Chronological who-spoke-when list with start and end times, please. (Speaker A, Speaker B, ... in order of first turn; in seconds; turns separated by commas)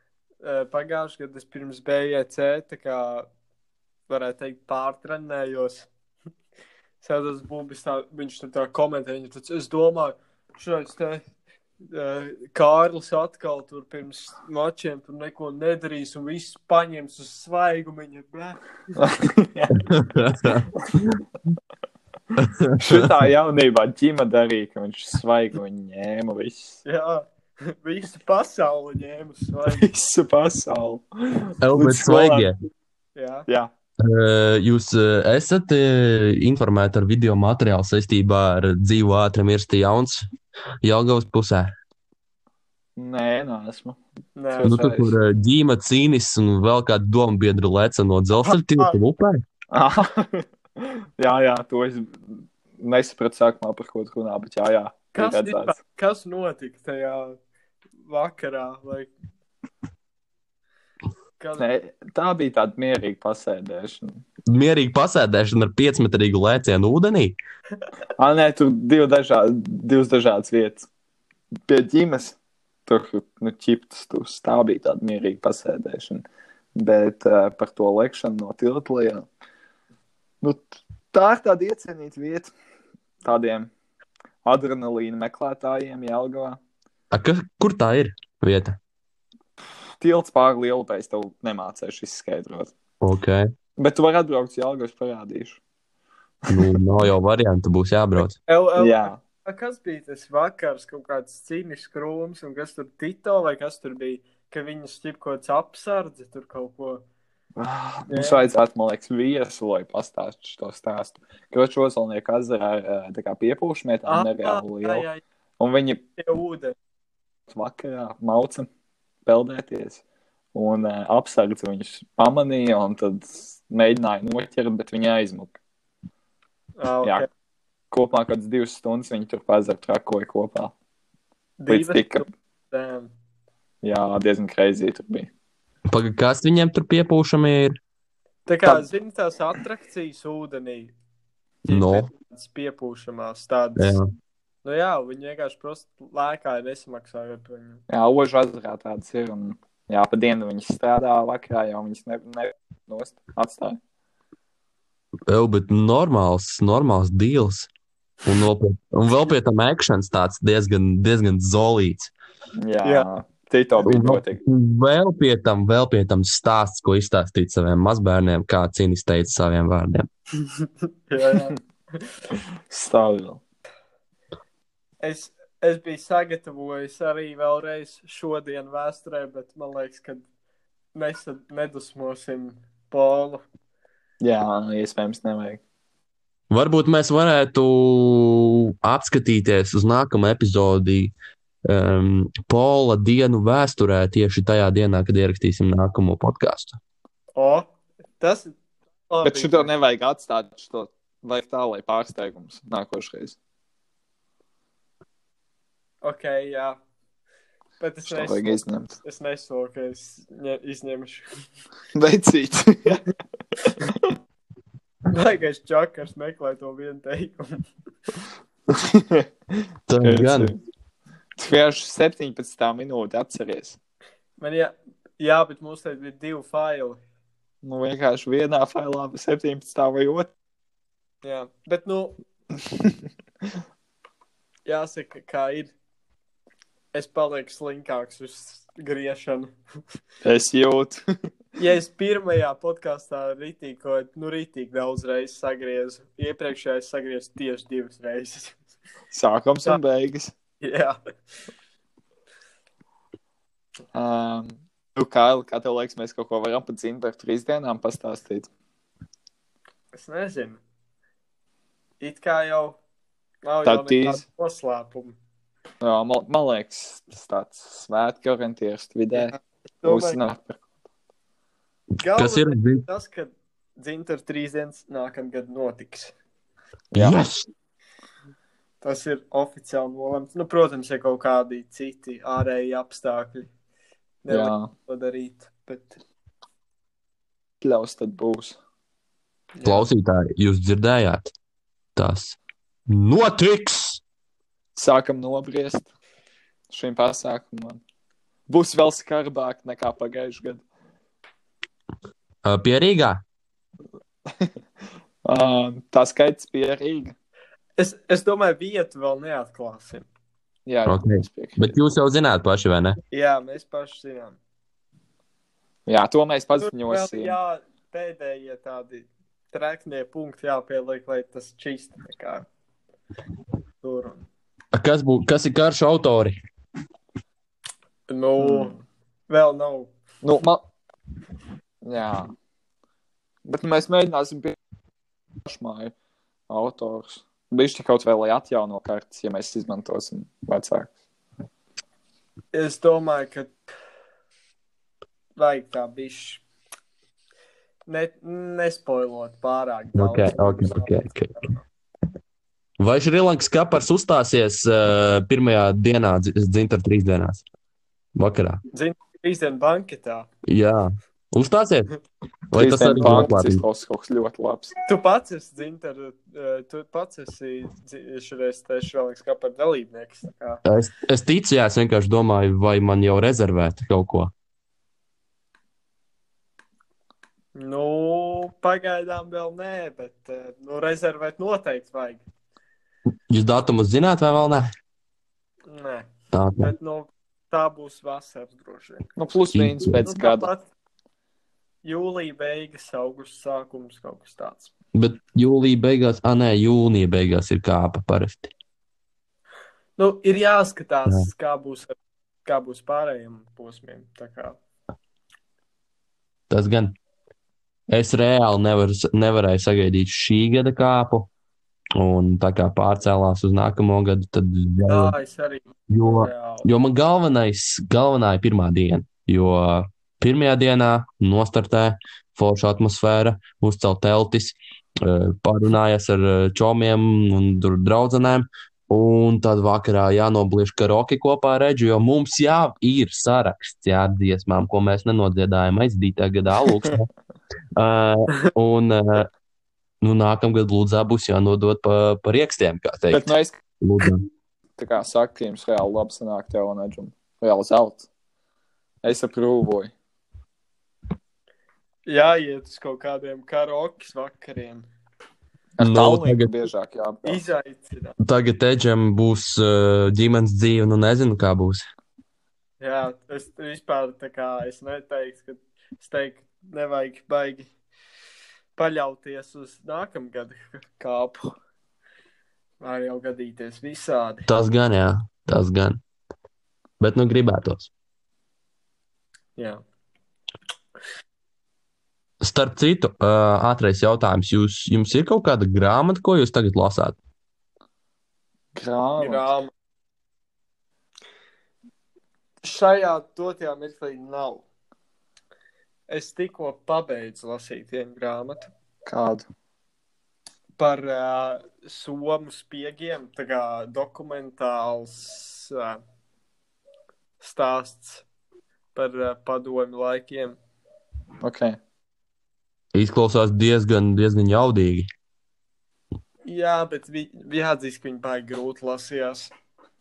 Speaker A: 0.4-3.3, Speaker A: 4.1-5.9, Speaker A: 7.0-11.2, Speaker A: 11.8-18.6, Speaker B: 18.9-19.7, Speaker C: 19.8-20.7, Speaker C: 22.4-23.1, Speaker B: 22.8-26.8, Speaker A: 26.8-29.9, Speaker B: 29.6-32.5, Speaker C: 31.6-32.5, Speaker A: 33.1-33.5, Speaker C: 34.0-40.2, Speaker C: 40.8-41.7, Speaker B: 43.0-44.0, Speaker A: 44.4-44.8, Speaker B: 44.5-45.1, Speaker C: 44.6-49.4, Speaker A: 48.4-49.0, Speaker B: 49.7-55.7, Speaker A: 55.1-57.4, Speaker A: 58.0-59.1, Speaker A: 61.4-61.6, Speaker B: 61.6-64.2, Speaker C: 64.5-67.3, Speaker B: 68.2-70.9, Speaker B: 71.7-76.2, Speaker B: 76.8-79.3, Speaker B: 80.4-82.5, Speaker B: 83.2-83.7, Speaker B: 84.4-86.6, Speaker C: 87.1-88.8, Speaker B: 90.0-92.7, Speaker C: 93.0-93.5, Speaker B: 93.8-95.6, Speaker C: 96.5-98.3, Speaker A: 98.4-107.0, Speaker B: 98.8-99.2, Speaker B: 107.6-115.0, Speaker A: 108.1-108.4, Speaker A: 114.1-115.2, Speaker B: 115.6-116.0, Speaker A: 116.2-116.7, Speaker B: 117.5-118.7, Speaker B: 119.2-120.0, Speaker B: 120.5-125.5, Speaker A: 126.8-127.3, Speaker B: 127.9-130.7, Speaker A: 131.6-133.1, Speaker B: 131.7-132.2, Speaker B: 133.8-135.3, Speaker C: 135.9-137.8, Speaker A: 138.4-140.9, Speaker A: 141.7-144.0, Speaker C: 141.7-142.1, Speaker C: 143.8-144.1, Speaker A: 144.6-147.8, Speaker B: 147.9-153.8, Speaker C: 155.3-157.7, Speaker C: 158.2-162.1, Speaker B: 162.6-164.4, Speaker A: 162.8-163.1, Speaker C: 163.8-170.1, Speaker A: 170.6-171.6, Speaker B: 172.7-173.4, Speaker A: 175.0-180.2, Speaker A: 180.9-183.4, Speaker B: 184.2-185.6, Speaker C: 186.5-191.1, Speaker C: 191.7-196.8, Speaker A: 197.3-197.7, Speaker A: 198.2-198.5, Speaker A: 199.1-199.7, Speaker B: 199.2-203.4, Speaker A: 206.0-206.8, Speaker A: 207.8-211.2, Speaker B: 208.1-208.9, Speaker B: 211.9-213.0, Speaker A: 215.1-217.7, Speaker B: 218.7-220.6, Speaker C: 219.9-220.5, Speaker B: 221.4-223.8, Speaker A: 224.4-227.0, Speaker B: 227.6-230.3, Speaker A: 231.2-232.2, Speaker A: 234.7-235.7, Speaker A: 236.9-239.5, Speaker B: 240.2-241.0, Speaker A: 241.6-248.6, Speaker B: 249.1-250.3, Speaker A: 250.6-251.0, Speaker B: 253.9-258.5, Speaker A: 259.9-260.6, Speaker A: 262.0-262.8, Speaker A: 263.4-265.2, Speaker B: 263.6-264.2, Speaker B: 265.8-270.6, Speaker A: 269.1-270.2, Speaker A: 272.0-276.1, Speaker C: 272.0-272.8, Speaker C: 276.9-277.5, Speaker A: 278.8-283.5, Speaker A: 284.2-286.0, Speaker B: 284.3-284.7, Speaker B: 287.6-288.6, Speaker A: 289.6-289.9, Speaker C: 289.6-291.3, Speaker C: 291.9-292.4, Speaker C: 292.9-294.0, Speaker B: 294.8-295.9, Speaker B: 296.7-297.8, Speaker B: 298.5-300.6, Speaker C: 302.4-303.2, Speaker B: 305.2-307.1, Speaker A: 307.8-310.1, Speaker B: 310.6-311.7, Speaker C: 310.9-313.0, Speaker A: 313.1-314.4, Speaker B: 315.9-317.4, Speaker A: 316.6-322.4, Speaker A: 323.8-324.2, Speaker C: 324.7-326.4, Speaker A: 328.1-329.9, Speaker B: 328.4-328.7, Speaker B: 330.2-330.6, Speaker B: 331.8-332.3, Speaker B: 333.4-334.6, Speaker B: 335.4-335.9, Speaker B: 336.5-340.9, Speaker A: 342.5-343.5, Speaker A: 345.4-346.4, Speaker A: 347.9-351.6, Speaker C: 349.9-351.3, Speaker C: 352.8-357.4, Speaker C: 358.1-358.6, Speaker A: 358.7-360.3, Speaker C: 360.5-361.9, Speaker C: 362.5-363.6, Speaker B: 362.6-364.7, Speaker A: 363.0-363.3, Speaker A: 364.9-370.6, Speaker C: 370.6-374.3, Speaker A: 377.5-382.2, Speaker C: 383.3-384.7, Speaker A: 385.7-386.1, Speaker C: 386.3-386.7, Speaker A: 386.6-389.1, Speaker B: 389.2-390.5, Speaker C: 389.5-390.0, Speaker A: 390.0-390.6, Speaker A: 391.8-394.7, Speaker C: 394.9-398.5, Speaker A: 400.0-404.6, Speaker C: 406.5-406.9, Speaker C: 407.9-411.3, Speaker C: 412.0-415.1, Speaker A: 414.9-416.7, Speaker C: 415.9-437.1, Speaker C: 437.8-439.3, Speaker C: 440.0-443.3, Speaker B: 443.1-443.6, Speaker C: 443.8-444.2, Speaker B: 444.8-448.1, Speaker B: 449.0-449.9, Speaker A: 452.1-454.9, Speaker B: 455.8-457.4, Speaker C: 455.8-456.5, Speaker A: 457.2-458.1, Speaker C: 458.2-461.8, Speaker A: 462.8-467.7, Speaker A: 468.8-471.5, Speaker A: 472.8-474.4, Speaker C: 474.5-476.0, Speaker C: 477.0-477.9, Speaker A: 479.6-479.8, Speaker C: 482.4-487.2, Speaker B: 488.7-489.4, Speaker A: 489.2-489.7, Speaker A: 492.6-494.6, Speaker A: 496.1-498.7, Speaker B: 499.1-499.5, Speaker A: 500.8-506.0, Speaker A: 507.4-508.2, Speaker A: 508.9-510.6, Speaker B: 511.4-511.8, Speaker C: 512.9-515.1, Speaker A: 516.5-519.5